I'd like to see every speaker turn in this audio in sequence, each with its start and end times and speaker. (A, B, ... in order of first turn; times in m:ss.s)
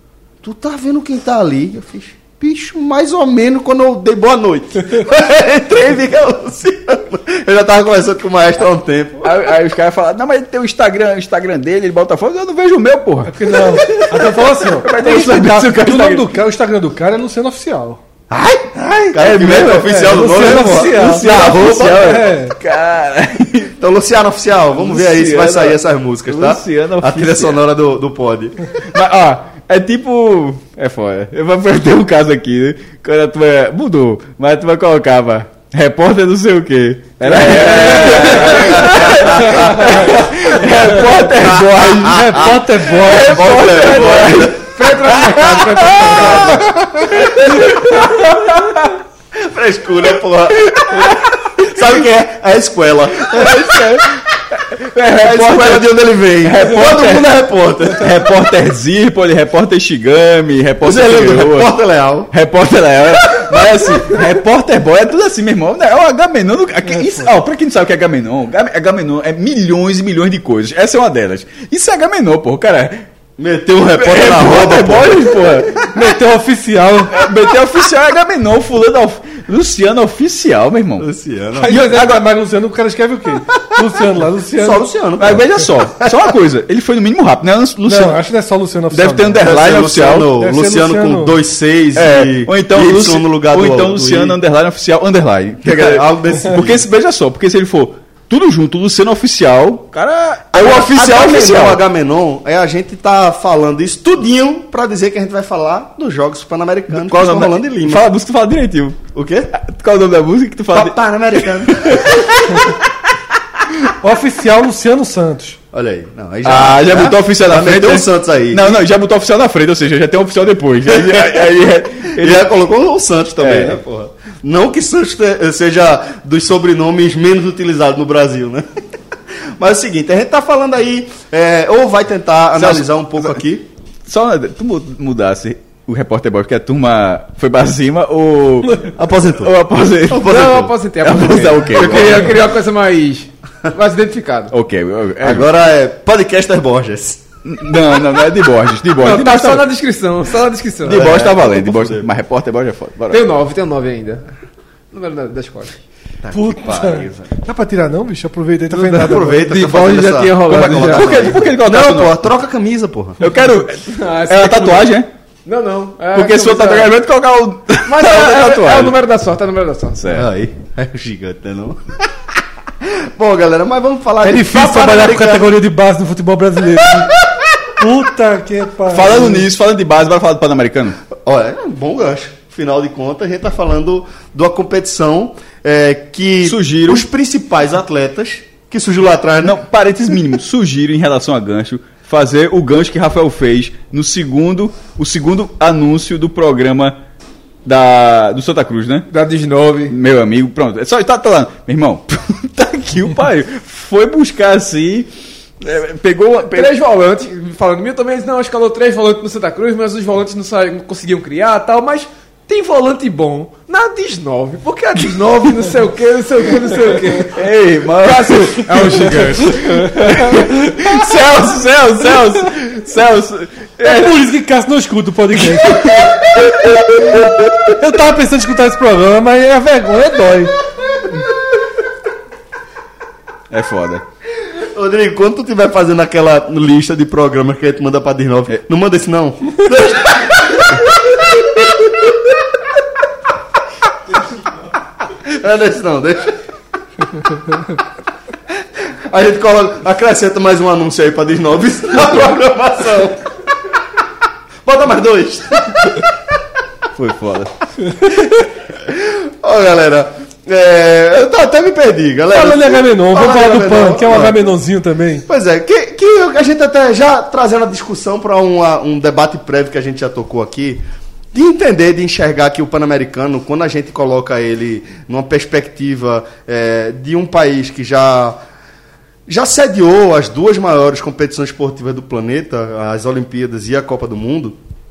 0:00.4-0:09.4 A
0:09.2-0:16.3 B
0:13.3-0:18.0 C
0:18.3-0:22.2 A
0:19.2-0:23.7 B
0:19.2-0:22.6 C
0:23.8-0:28.7 A
0:24.8-0:27.6 B
0:28.8-0:46.6 B
0:37.2-0:40.1 D
0:39.3-0:40.0 A
0:41.2-0:48.2 A
0:42.1-0:43.7 C
0:43.4-0:46.7 D
0:47.2-0:48.6 B
0:49.3-0:53.6 A
0:50.6-0:51.8 B
0:53.3-0:57.4 B
0:55.1-0:58.2 A
0:57.9-1:01.7 B
1:00.8-1:02.3 A
1:02.3-1:13.1 B
1:03.4-1:04.1 A
1:13.4-1:15.6 A
1:14.0-1:15.8 B
1:15.8-1:17.2 C
1:17.1-1:21.1 B
1:21.0-1:22.0 A
1:21.6-1:24.8 C
1:21.7-1:22.2 B
1:23.8-1:26.3 A
1:25.2-1:28.2 B
1:27.8-1:29.5 C
1:28.9-1:30.3 B
1:29.4-1:34.4 A
1:30.4-1:31.4 C
1:31.9-1:41.8 B
1:35.6-1:36.8 A
1:40.5-1:48.0 A
1:46.9-1:52.9 B
1:49.1-1:49.5 A
1:50.7-1:52.6 A
1:54.0-1:55.6 C
1:55.7-1:58.8 A
1:56.4-2:02.5 B
2:00.9-2:01.5 A
2:02.1-2:08.6 A
2:03.4-2:03.8 B
2:09.6-2:13.6 A
2:12.6-2:13.4 B
2:14.1-2:22.3 B
2:19.0-2:19.5 A
2:20.1-2:20.7 A
2:20.2-2:24.5 D
2:21.5-2:22.3 A
2:24.5-2:25.5 B
2:25.2-2:27.2 A
2:27.4-2:29.6 B
2:29.0-2:31.2 D
2:30.8-2:33.3 B
2:30.9-2:32.1 A
2:33.1-2:34.2 D
2:34.9-2:35.8 D
2:36.2-2:37.3 A
2:36.3-2:39.4 C
2:38.7-2:43.2 A
2:39.1-2:41.4 D
2:40.4-2:42.2 B
2:43.2-2:45.1 B
2:43.3-2:44.9 D
2:45.4-2:46.9 D
2:46.1-2:48.9 B
2:47.8-2:50.0 D
2:50.0-2:50.3 B
2:50.1-2:52.0 A
2:52.8-2:55.6 A
2:54.2-2:57.1 C
2:57.8-2:59.4 C
2:58.9-3:01.0 B
3:01.1-3:09.6 A
3:06.4-3:07.0 B
3:09.4-3:17.0 B
3:17.6-3:19.1 B
3:19.1-3:19.9 D
3:19.9-3:25.1 B
3:25.6-3:26.7 B
3:26.5-3:37.4 D
3:37.2-3:44.3 B
3:38.0-3:40.4 D
3:43.8-3:45.9 C
3:45.4-3:47.2 B
3:47.7-3:50.6 C
3:53.5-3:54.0 B
3:54.5-4:02.1 A
4:05.2-4:06.3 A
4:09.1-4:13.3 A
4:14.6-4:16.1 A
4:17.0-4:17.5 B
4:18.7-4:24.5 A
4:22.3-4:25.3 C
4:25.3-4:38.4 A
4:39.3-4:44.6 A